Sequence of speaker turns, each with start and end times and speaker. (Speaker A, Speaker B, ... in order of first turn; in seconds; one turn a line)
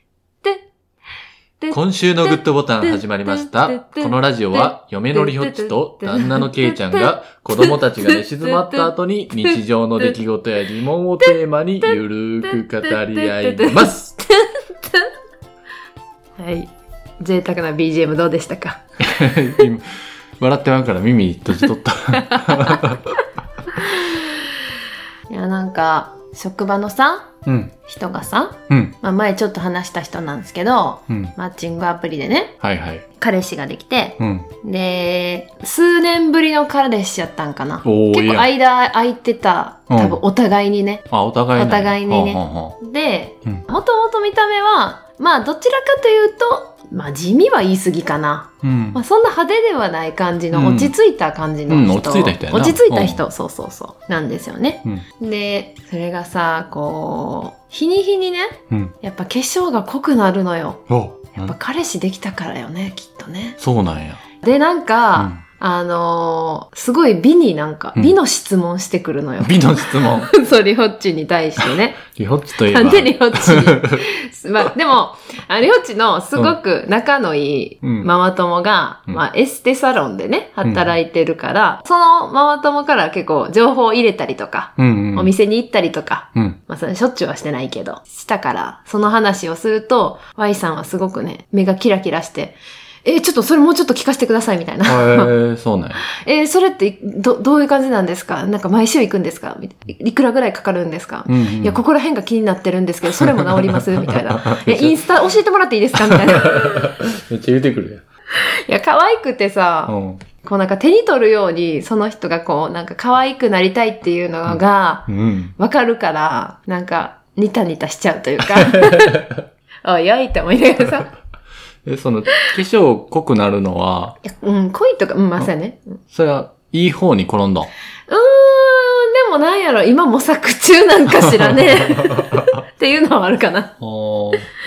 Speaker A: 1.6-10.2
Speaker B: 1.7-14.2
Speaker A: 11.2-15.1
Speaker A: 16.4-18.8
Speaker B: 19.0-19.9
Speaker B: 20.4-23.0
Speaker A: 22.2-22.9
Speaker A: 23.7-24.5
Speaker A: 25.3-27.3
Speaker B: 27.5-27.8
Speaker A: 27.8-32.6
Speaker B: 28.7-29.0
Speaker B: 31.1-31.4
Speaker B: 32.6-33.0
Speaker A: 33.2-63.6
Speaker B: 34.2-34.5
Speaker B: 37.8-38.5
Speaker B: 39.9-40.2
Speaker B: 41.1-42.8
Speaker B: 48.6-49.0
Speaker B: 50.5-50.9
Speaker B: 51.7-53.2
Speaker B: 58.7-59.0
Speaker B: 60.9-61.6
Speaker B: 63.6-64.2
Speaker A: 64.4-72.1
Speaker B: 65.2-65.4
Speaker B: 69.4-70.3
Speaker B: 72.0-74.0
Speaker A: 72.7-95.3
Speaker B: 77.8-78.1
Speaker B: 84.8-85.3
Speaker B: 94.8-96.0
Speaker A: 96.0-107.0
Speaker B: 101.3-101.8
Speaker B: 103.1-105.1
Speaker B: 106.0-108.0
Speaker A: 108.4-119.3
Speaker B: 109.9-110.2
Speaker B: 114.5-115.5
Speaker B: 118.6-119.4
Speaker A: 119.8-121.1
Speaker B: 121.8-124.2
Speaker A: 124.2-126.0
Speaker B: 126.1-127.7
Speaker A: 128.1-133.8
Speaker B: 131.3-132.4
Speaker B: 133.8-134.5